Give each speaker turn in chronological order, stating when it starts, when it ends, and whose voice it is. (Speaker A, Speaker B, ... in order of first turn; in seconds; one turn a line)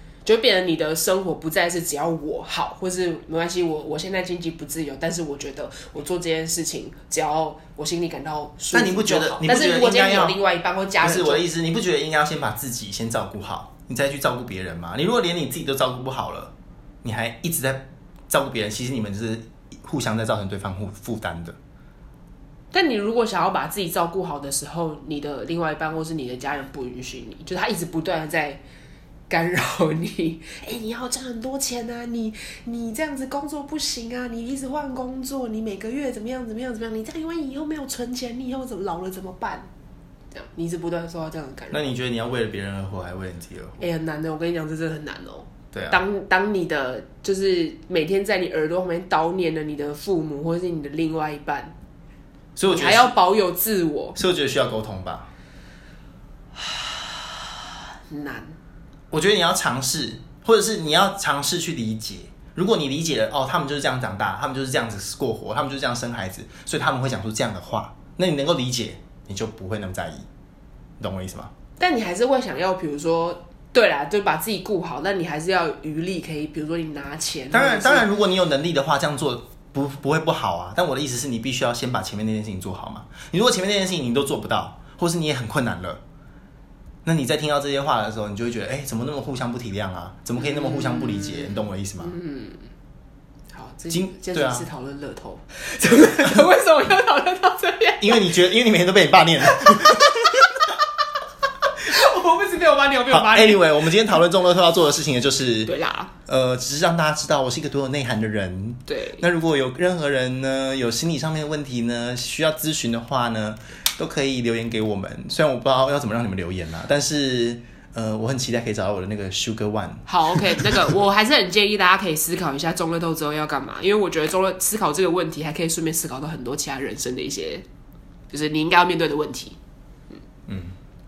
Speaker A: 0.2-11.4
Speaker B: 8.7-10.4
Speaker B: 11.0-16.5
Speaker B: 17.0-21.6
Speaker A: 22.7-28.6
Speaker A: 29.3-39.7
Speaker A: 40.3-41.9
Speaker B: 41.7-43.8
Speaker A: 43.8-51.7
Speaker B: 45.7-46.0
Speaker B: 52.5-53.1
Speaker A: 52.7-54.2
Speaker B: 54.1-55.3
Speaker A: 56.6-57.3
Speaker A: 58.1-58.5
Speaker B: 59.1-70.2
Speaker B: 71.0-71.5
Speaker A: 71.8-78.1
Speaker B: 77.5-86.0
Speaker B: 87.0-92.1
Speaker A: 90.3-92.7
Speaker A: 93.5-98.3
Speaker B: 93.9-94.7
Speaker B: 95.8-96.4
Speaker B: 98.0-100.4
Speaker A: 99.5-100.6
Speaker A: 101.8-103.7
Speaker B: 103.1-105.7
Speaker A: 105.7-106.1
Speaker B: 106.3-120.8
Speaker A: 108.9-109.2
Speaker A: 120.1-127.6
Speaker A: 128.3-129.6
Speaker B: 130.5-130.7